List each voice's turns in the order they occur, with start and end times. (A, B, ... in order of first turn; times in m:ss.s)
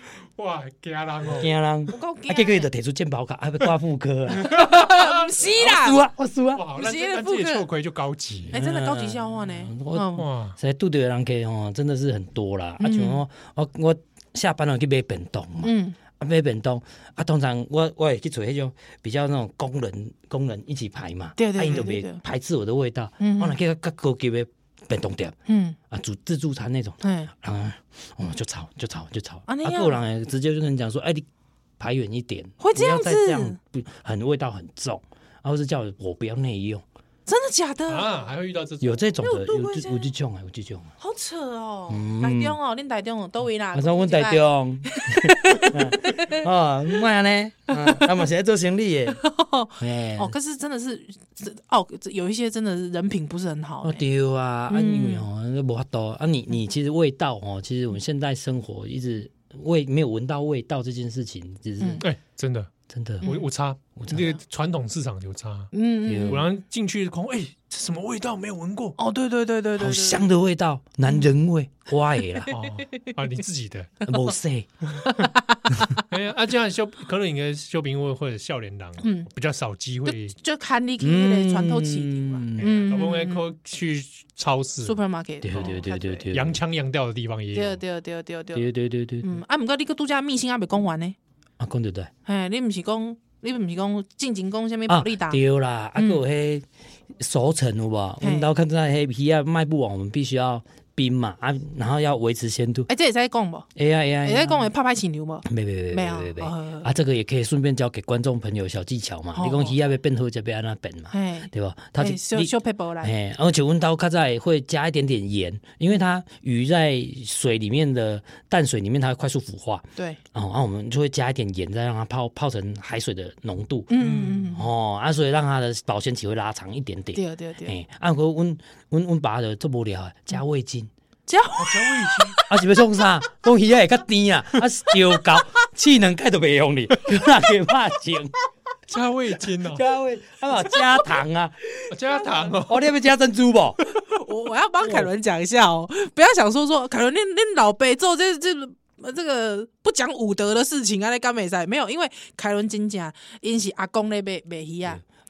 0:00.4-0:01.5 A
0:01.3-0:04.8 B
0:01.9-0:02.7 C
0:04.4-0:06.0 C
0:04.5-0:05.1 A
0:05.6-0:06.7 B
0:06.6-0:08.5 A
0:06.7-0:07.7 C
0:08.5-0:25.4 B
0:08.5-0:10.3 C
0:10.2-0:10.6 A
0:12.8-0:13.2 C
0:15.6-0:16.0 C
0:21.4-0:22.2 C
0:23.2-0:23.6 C
0:25.5-0:25.8 C
0:25.9-0:31.2 B
0:27.0-0:27.3 C
0:29.5-0:30.0 C
0:31.8-0:36.8 B
0:32.6-0:33.6 C
0:37.3-0:38.3 C
0:37.9-0:39.0 A
0:38.8-0:40.9 B
0:39.2-0:40.1 C
0:41.0-0:46.4 C
0:41.9-0:42.6 B
0:43.7-0:49.2 B
0:47.7-0:48.0 C
0:49.2-0:54.0 C
0:49.8-0:50.4 B
0:53.8-1:02.1 B
0:54.7-0:55.3 C
1:01.8-1:02.0 C
1:02.0-1:02.7 A
1:02.9-1:03.3 B
1:03.2-1:05.7 A
1:03.2-1:03.5 C
1:04.0-1:04.4 B
1:05.7-1:06.5 C
1:06.1-1:06.5 B
1:06.3-1:09.0 A
1:09.0-1:10.3 C
1:09.8-1:12.5 B
1:12.5-1:13.1 C
1:12.5-1:13.9 A
1:14.0-1:14.9 B
1:15.0-1:16.1 C
1:16.1-1:20.4 A
1:19.0-1:19.3 C
1:20.0-1:23.5 C
1:21.0-1:22.7 B
1:22.6-1:25.0 A
1:24.8-1:26.3 C
1:25.4-1:26.6 B
1:26.3-1:27.8 A
1:27.5-1:28.7 C
1:28.6-1:29.4 B
1:29.2-1:31.2 C
1:31.6-1:32.1 B
1:32.3-1:35.4 C
1:34.9-1:36.7 B
1:36.0-1:36.2 C
1:37.2-1:42.9 B
1:38.2-1:38.5 C
1:42.9-1:43.7 C
1:43.8-1:44.7 B
1:44.2-1:46.9 C
1:45.4-2:10.9 B
1:49.4-1:49.8 C
1:51.1-1:53.1 C
2:03.9-2:04.7 C
2:04.0-2:04.5 A
2:07.1-2:07.8 C
2:11.3-2:12.7 C
2:11.6-2:12.4 A
2:12.5-2:18.3 B
2:14.9-2:15.4 C
2:18.9-2:19.8 A
2:19.6-2:21.7 B
2:20.6-2:21.2 C
2:21.9-2:22.9 A
2:22.2-2:22.4 C
2:22.6-2:23.8 B
2:24.1-2:35.0 C